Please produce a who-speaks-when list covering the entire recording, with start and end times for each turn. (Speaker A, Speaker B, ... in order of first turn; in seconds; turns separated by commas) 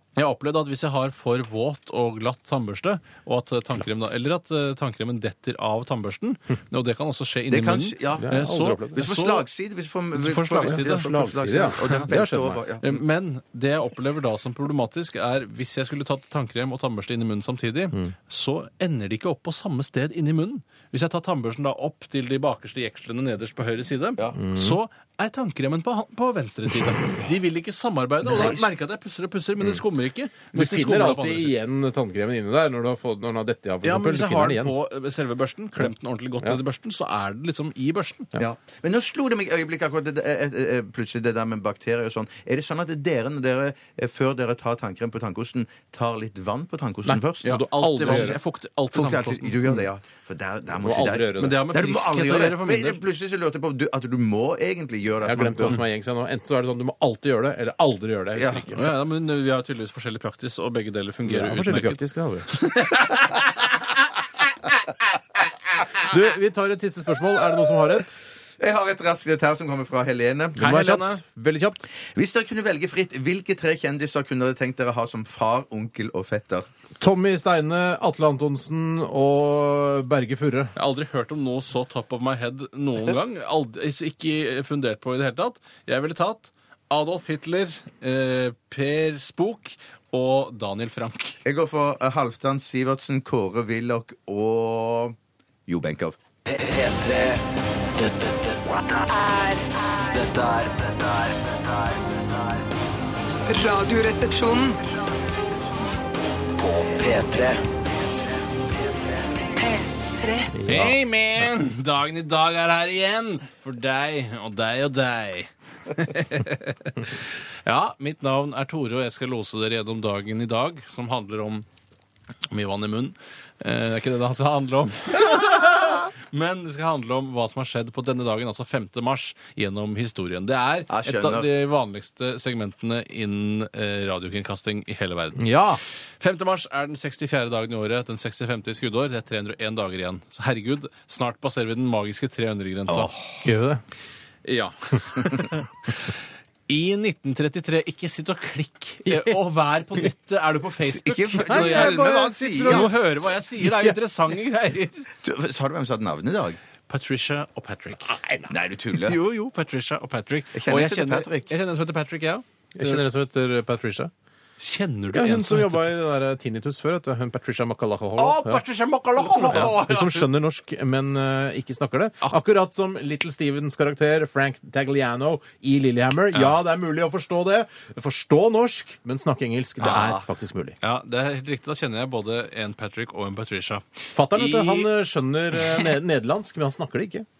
Speaker A: 0.2-9.5, Speaker B: 7.5-13.0, Speaker C: 8.2-9.1, Speaker A: 10.1-12.1, Speaker C: 10.6-12.6, Speaker A: 12.8-31.6, Speaker C: 24.4-24.8, Speaker B: 28.4-28.6, Speaker C: 30.5-34.8, Speaker A: 33.8-38.3, Speaker B: 38.4-48.3, Speaker C: 47.1-48.4, Speaker A: 47.4-49.6, Speaker B: 48.9-55.8, Speaker C: 50.8-51.6, Speaker A: 51.4-53.0, Speaker C: 55.2-58.9, Speaker B: 58.4-58.8, Speaker A: 58.7-64.5, Speaker C: 61.3-62.7, Speaker C: 66.0-68.2, Speaker B: 68.6-70.7, Speaker C: 70.6-71.9, Speaker A: 70.6-71.2, Speaker B: 72.2-76.7, Speaker C: 77.0-80.7, Speaker A: 80.8-91.4, Speaker B: 91.5-95.2, Speaker B: 95.7-96.2, Speaker D: 96.5-97.4, Speaker D: 98.0-99.2, Speaker E: 99.1-99.7, Speaker D: 99.9-102.7, Speaker E: 103.5-104.8, Speaker D: 106.3-109.3, Speaker E: 109.6-110.5, Speaker C: 110.5-111.0, Speaker A: 110.7-121.7, Speaker A: 122.5-135.5, Speaker B: 130.9-131.5, Speaker C: 135.4-135.8, Speaker A: 136.2-143.1, Speaker B: 142.9-143.4, Speaker C: 143.4-143.8, Speaker A: 144.4-146.2, Speaker A: 146.7-155.0, Speaker B: 150.8-152.9, Speaker C: 151.4-153.9, Speaker B: 155.2-156.6, Speaker A: 156.9-158.2, Speaker B: 158.5-159.2, Speaker A: 159.0-163.0, Speaker B: 160.5-161.5, Speaker C: 162.8-164.1, Speaker A: 164.6-165.9, Speaker C: 165.1-168.6, Speaker A: 168.2-170.3, Speaker C: 169.2-180.8, Speaker B: 179.8-180.2, Speaker A: 180.8-184.9, Speaker C: 184.2-187.3, Speaker A: 185.5-186.0